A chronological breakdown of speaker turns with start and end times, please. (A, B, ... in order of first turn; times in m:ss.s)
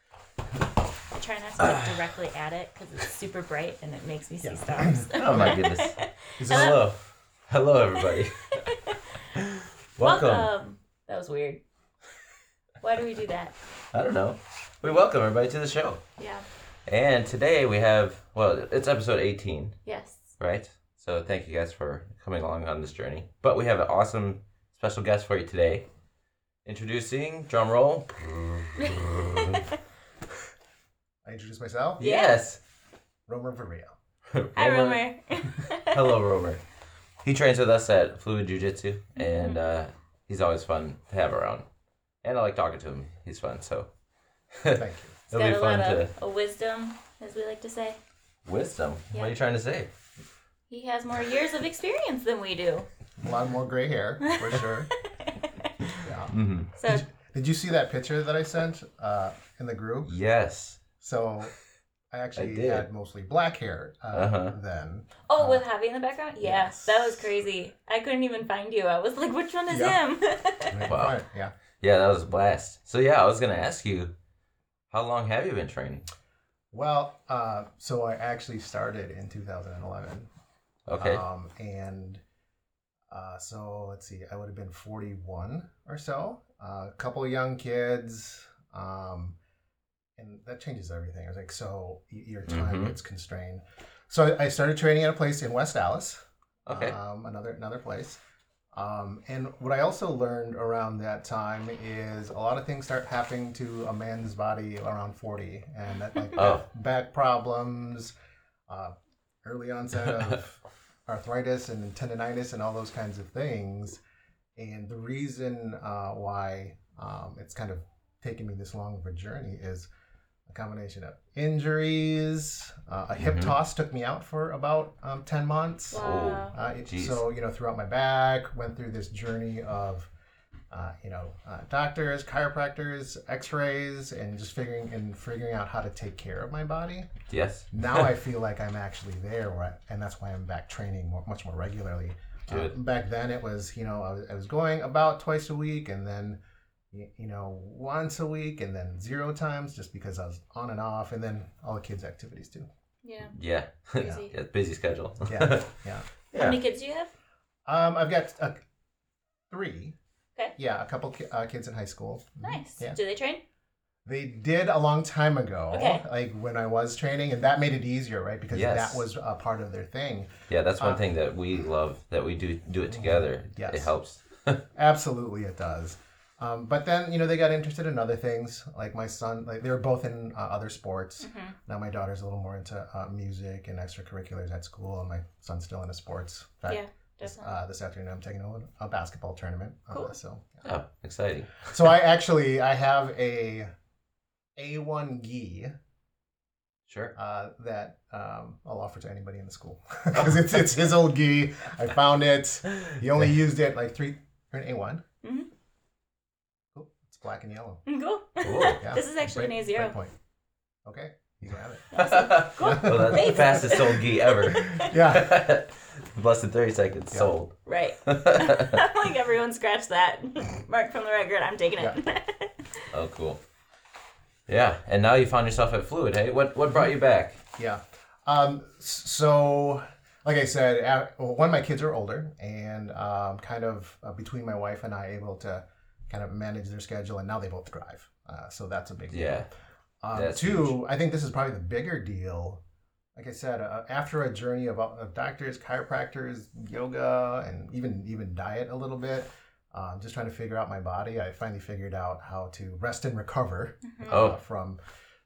0:01.1-0:06.8 A
0:01.6-0:01.9 B
0:04.4-0:05.6 C
0:05.2-0:08.7 B
0:06.4-0:06.8 C
0:08.0-0:09.1 A
0:09.4-0:10.5 B
0:10.0-0:11.6 A
0:12.8-0:13.5 A
0:13.9-0:16.0 B
0:16.2-0:16.5 A
0:16.9-0:19.8 B
0:19.8-0:20.3 A
0:20.4-0:25.9 B
0:26.6-0:29.7 B
0:28.8-0:29.6 A
0:31.2-0:32.1 C
0:32.0-0:32.5 A
0:32.0-0:32.6 B
0:33.3-0:34.0 C
0:34.3-0:35.0 B
0:34.6-0:36.2 A
0:35.9-0:36.6 B
0:37.2-0:41.6 B
0:39.2-0:39.6 A
0:42.2-0:43.9 B
0:44.5-0:46.1 B
0:44.7-0:45.2 C
0:45.3-0:48.0 A
0:48.4-0:49.9 B
0:49.1-0:49.4 A
0:50.7-0:52.9 A
0:53.2-0:54.9 C
0:54.2-0:55.7 A
0:56.0-1:00.2 C
0:56.3-0:56.7 B
0:56.8-0:57.0 A
1:00.1-1:00.8 B
1:01.0-1:01.5 C
1:02.1-1:05.6 C
1:02.4-1:02.9 B
1:04.1-1:04.6 B
1:05.3-1:10.8 A
1:06.4-1:07.3 C
1:09.7-1:10.0 C
1:10.7-1:11.6 C
1:10.9-1:11.2 B
1:11.8-1:14.1 B
1:14.9-1:16.0 B
1:16.7-1:20.3 C
1:20.9-1:21.2 B
1:20.9-1:22.2 C
1:23.1-1:29.4 C
1:30.2-1:38.2 C
1:32.5-1:32.9 B
1:36.7-1:37.0 B
1:38.8-1:48.1 C
1:46.4-1:46.7 B
1:48.7-1:54.0 C
1:50.1-1:50.4 B
1:54.6-1:59.9 C
2:00.5-2:10.1 C
2:03.2-2:03.6 B
2:05.9-2:06.6 A
2:05.9-2:07.2 B
2:10.7-2:17.1 C
2:17.3-2:18.0 B
2:17.7-2:26.4 C
2:22.5-2:22.8 B
2:26.9-2:32.7 C
2:33.0-2:33.4 A
2:33.3-2:35.7 B
2:34.0-2:34.3 A
2:35.3-2:36.1 C
2:36.3-2:37.1 A
2:37.7-2:38.6 C
2:39.5-2:40.0 C
2:40.6-2:43.0 C
2:42.4-2:43.4 A
2:44.0-2:51.0 C
2:45.7-2:46.0 A
2:48.5-2:49.0 B
2:50.5-2:54.6 B
2:52.9-2:53.9 C
2:54.8-3:10.7 C
3:01.2-3:01.6 A
3:06.7-3:07.5 A
3:09.9-3:10.2 A
3:10.6-3:11.7 B
3:11.7-3:13.7 C
3:14.6-3:15.8 C
3:16.9-3:17.2 B
3:17.2-3:25.0 C
3:25.2-3:25.5 A
3:26.7-3:27.8 C
3:27.9-3:30.0 A
3:28.4-3:28.9 B
3:28.8-3:30.2 C
3:30.8-3:35.4 C
3:31.9-3:34.9 A
3:31.9-3:38.8 B
3:37.7-3:42.9 A
3:42.9-3:43.4 B
3:44.5-3:47.4 B
3:47.6-3:59.5 C
3:59.1-3:59.5 B
4:00.0-4:02.6 C
4:00.1-4:00.8 B
4:03.2-4:14.8 C
4:13.8-4:14.2 A
4:14.1-4:14.4 B